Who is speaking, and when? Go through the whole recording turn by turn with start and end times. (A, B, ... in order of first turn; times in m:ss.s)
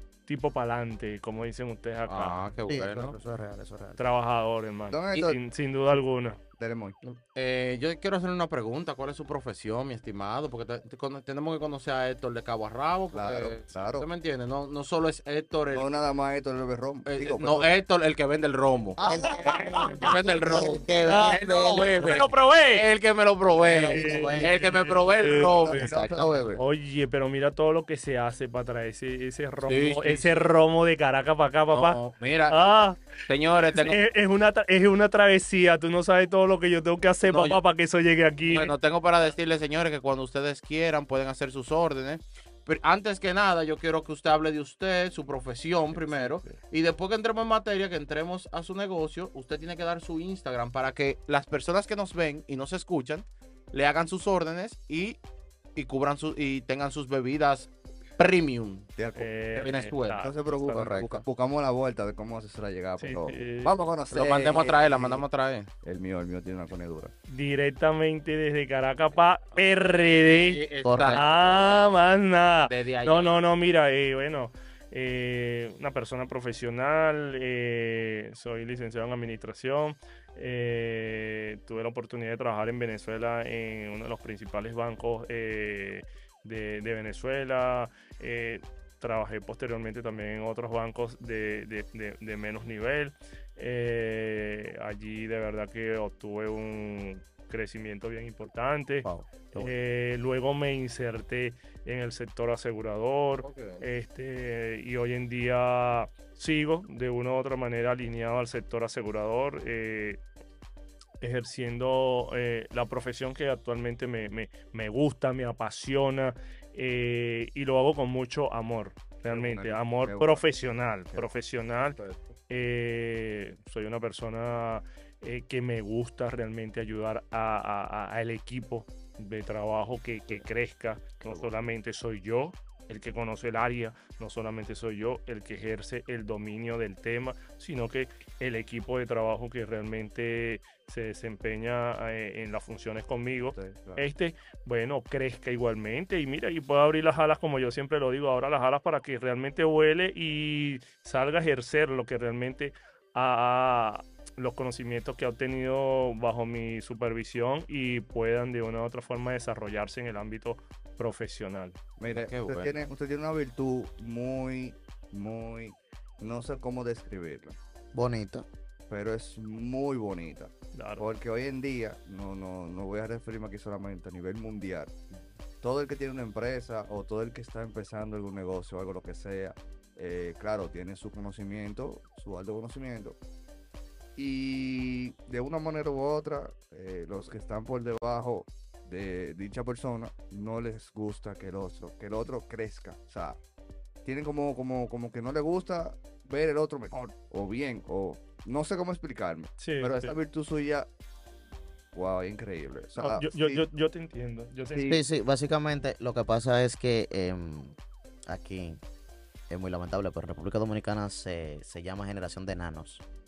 0:00.3-0:02.4 A
0:02.1-0:03.2 B
0:02.7-0:04.0 C
0:04.0-0:06.4 A
0:04.9-0:05.4 D
0:06.6-0:07.0 D
0:07.0-0:15.9 B
0:13.1-0:14.1 D
0:15.7-0:17.7 D
0:17.1-0:25.9 B
0:19.0-0:19.2 D
0:19.0-0:21.9 C
0:19.2-0:20.1 A
0:21.1-0:22.9 A
0:23.6-0:24.6 C
0:23.9-0:25.9 A
0:25.5-0:26.4 D
0:25.7-0:26.6 C
0:26.6-0:33.1 A
0:29.6-0:30.5 B
0:31.7-0:32.7 B
0:33.3-0:34.0 B
0:33.7-0:38.7 A
0:37.2-0:37.6 B
0:38.5-0:55.2 B
0:45.9-0:46.6 D
0:55.8-0:58.9 B
0:59.0-0:59.3 D
0:59.2-1:01.1 A
0:59.6-1:01.1 B
1:00.2-1:05.2 D
1:03.0-1:03.8 A
1:04.1-1:05.7 B
1:05.8-1:07.1 D
1:07.3-1:50.2 A
1:10.3-1:11.8 B
1:10.8-1:11.2 C
1:12.7-1:13.4 B
1:39.0-1:39.7 C
1:43.4-1:43.8 B
1:51.2-2:02.0 A
1:59.2-2:00.4 D
2:02.5-2:41.8 A
2:23.5-2:24.0 D
2:42.0-2:47.6 D
2:42.1-2:42.7 B
2:47.9-2:48.5 C
2:48.9-2:54.9 D
2:50.7-2:51.1 A
2:55.6-3:03.2 D
3:04.2-3:13.4 D
3:14.0-3:20.9 D
3:19.6-3:20.2 A
3:21.9-3:23.6 D
3:23.0-3:25.0 A
3:24.9-3:27.8 C
3:28.3-3:28.8 C
3:29.5-3:33.0 C